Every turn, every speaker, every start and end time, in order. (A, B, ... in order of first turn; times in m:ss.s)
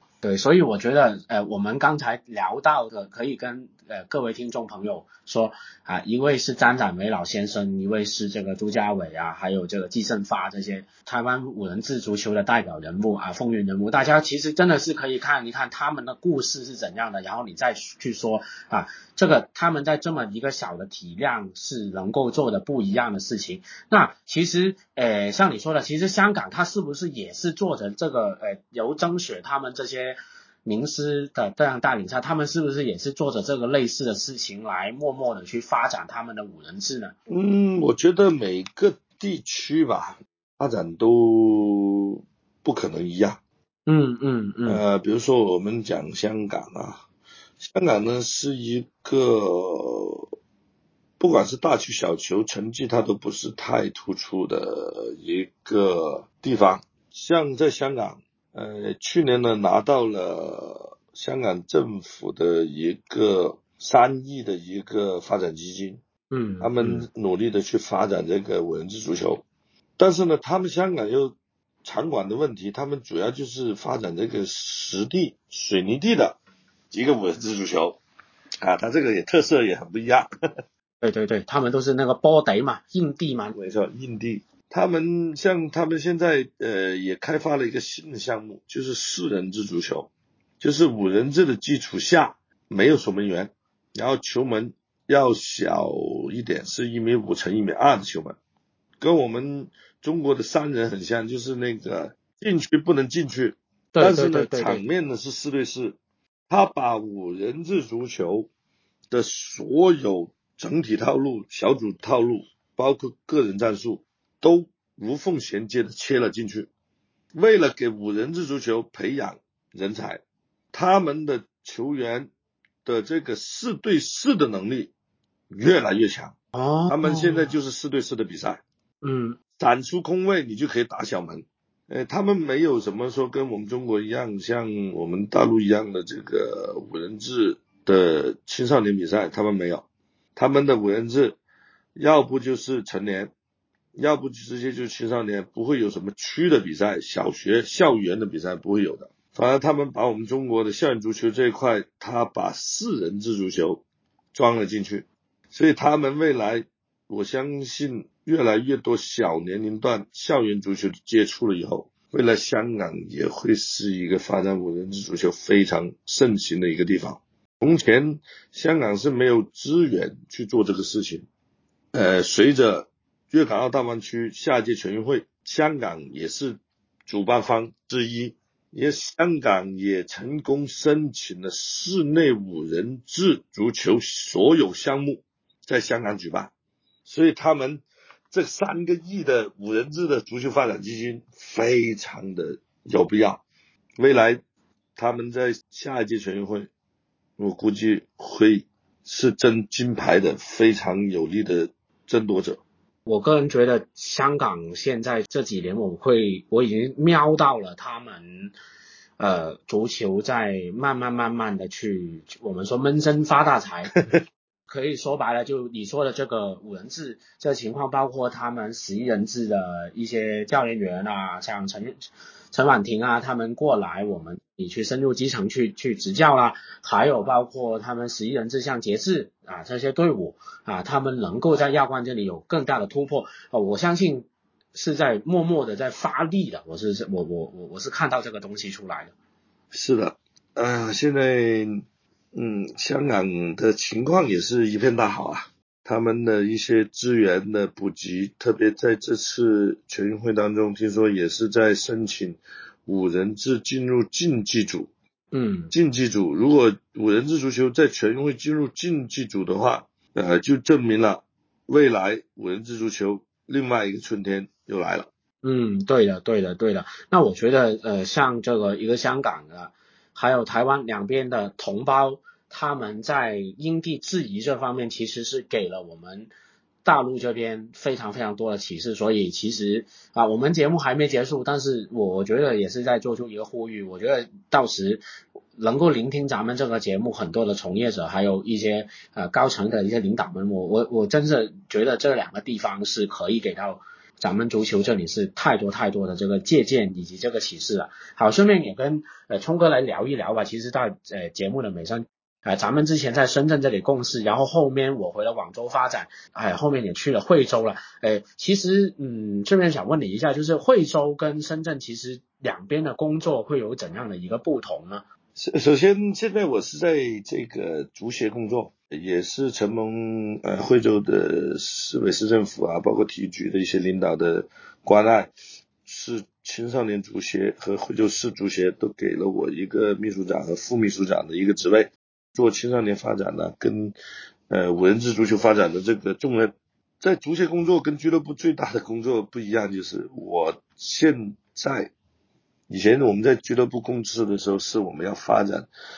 0:00.2-0:37.1 A
0:37.3-0:43.4 B
0:43.9-0:44.8 A
0:44.7-0:47.0 B
0:47.6-0:50.3 B
0:51.2-1:06.0 B
1:06.3-1:07.0 A
1:06.6-1:09.4 B
1:10.0-1:16.4 B
1:16.9-1:18.0 B
1:18.6-1:20.3 B
1:21.0-1:23.6 A
1:23.5-1:38.4 B
1:39.0-1:46.0 B
1:43.9-1:44.8 A
1:46.5-1:48.5 B
1:49.1-1:56.7 B
1:57.3-2:00.2 B
2:00.7-2:02.3 B
2:02.8-2:04.9 B
2:05.5-2:06.3 B
2:06.5-2:07.5 A
2:06.9-2:08.6 B
2:09.0-2:09.4 A
2:09.6-2:21.4 B
2:21.9-2:23.3 B
2:24.0-2:33.8 B
2:34.3-2:51.3 B
2:51.9-3:06.5 B
3:07.0-3:13.4 B
3:14.0-3:14.4 B
3:15.0-3:16.7 B
3:17.4-3:22.6 B
3:23.0-3:28.5 A
3:29.2-3:33.9 A
3:34.7-3:42.0 A
3:42.5-3:59.1 A
3:59.7-4:14.9 B
4:15.3-4:15.7 A
4:15.7-4:25.1 B
4:25.4-4:36.3 A
4:36.8-4:45.0 A
4:45.6-5:15.0 A
5:15.4-5:25.3 B
5:25.8-5:33.9 B
5:34.5-5:41.9 B
5:42.7-5:45.7 B